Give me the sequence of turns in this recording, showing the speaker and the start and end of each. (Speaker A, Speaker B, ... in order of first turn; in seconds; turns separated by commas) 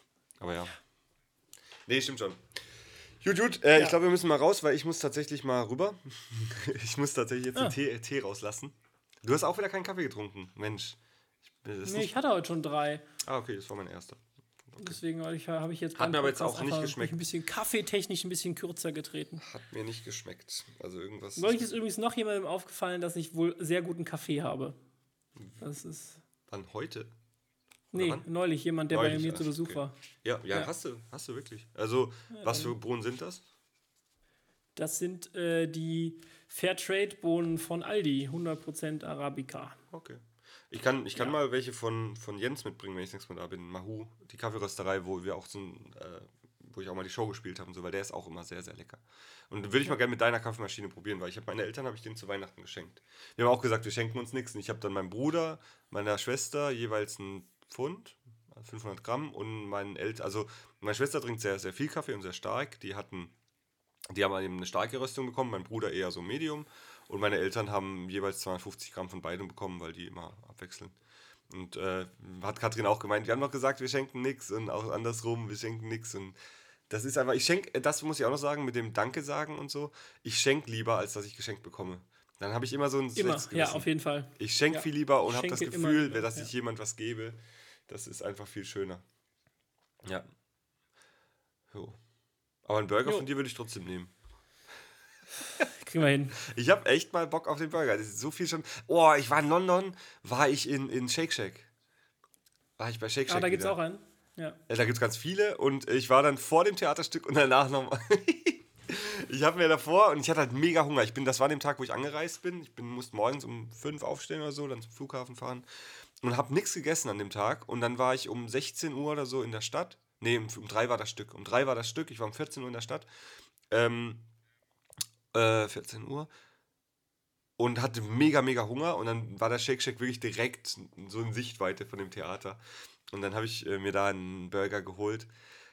Speaker A: 0.4-0.8, Speaker A: 1.9-2.6, Speaker A: 3.2-11.0, Speaker A: 11.6-12.2, Speaker B: 11.8-13.0, Speaker A: 13.2-15.0, Speaker B: 14.8-19.4, Speaker A: 15.9-17.2, Speaker A: 19.4-21.7, Speaker B: 21.4-24.8, Speaker A: 25.4-25.6, Speaker B: 25.6-26.2, Speaker A: 26.5-27.1, Speaker A: 27.9-28.3, Speaker B: 27.9-29.9, Speaker A: 28.9-33.4, Speaker B: 32.3-32.7, Speaker B: 34.8-39.8, Speaker A: 39.9-63.3, Speaker A: 64.1-70.9, Speaker A: 71.5-76.3, Speaker A: 76.9-87.3, Speaker B: 83.2-86.5, Speaker A: 87.9-89.0, Speaker A: 90.0-90.3, Speaker A: 91.7-92.0, Speaker A: 92.6-94.1, Speaker B: 95.5-96.4, Speaker A: 96.4-101.7, Speaker A: 102.8-103.8, Speaker B: 103.3-104.6, Speaker A: 104.7-115.6, Speaker A: 116.2-123.1, Speaker A: 123.7-124.2, Speaker A: 125.3-126.3, Speaker A: 127.6-132.6, Speaker A: 133.1-135.3